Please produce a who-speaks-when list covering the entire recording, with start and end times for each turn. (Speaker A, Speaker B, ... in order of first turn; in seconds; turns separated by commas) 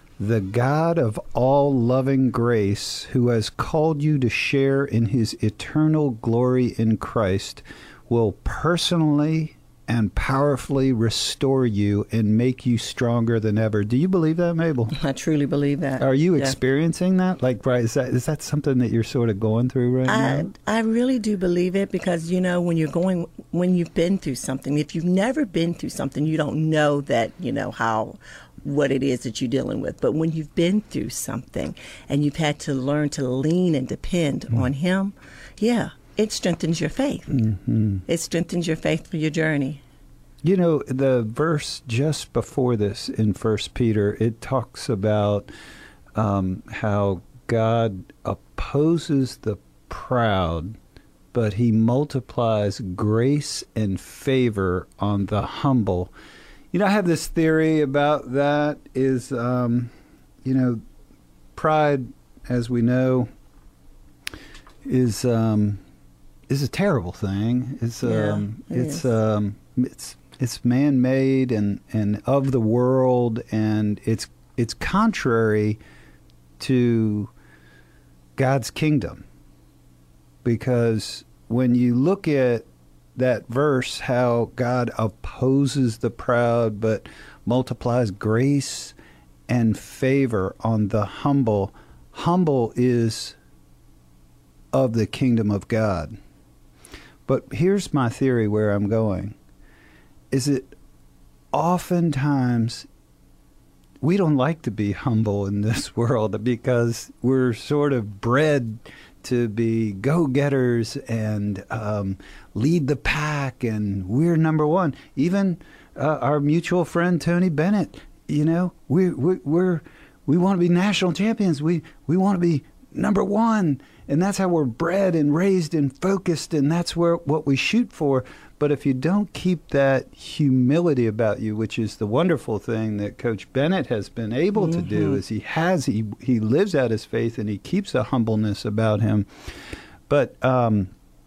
Speaker A: 0.2-14.9, Speaker B: 14.9-16.6, Speaker A: 16.0-20.5, Speaker B: 20.1-37.4, Speaker A: 37.3-38.0, Speaker B: 38.1-39.8, Speaker A: 40.4-45.5, Speaker A: 46.1-50.8, Speaker A: 51.3-56.1, Speaker A: 56.7-60.8, Speaker A: 61.6-63.3, Speaker A: 64.8-65.8, Speaker A: 66.5-75.8, Speaker B: 68.0-69.1, Speaker A: 76.6-77.3, Speaker A: 78.4-79.2, Speaker A: 80.4-89.0, Speaker A: 89.5-93.4, Speaker A: 94.7-96.2, Speaker A: 97.3-99.4, Speaker A: 100.3-100.7, Speaker A: 101.5-102.9, Speaker A: 104.0-139.3, Speaker B: 134.6-135.2, Speaker A: 140.1-140.9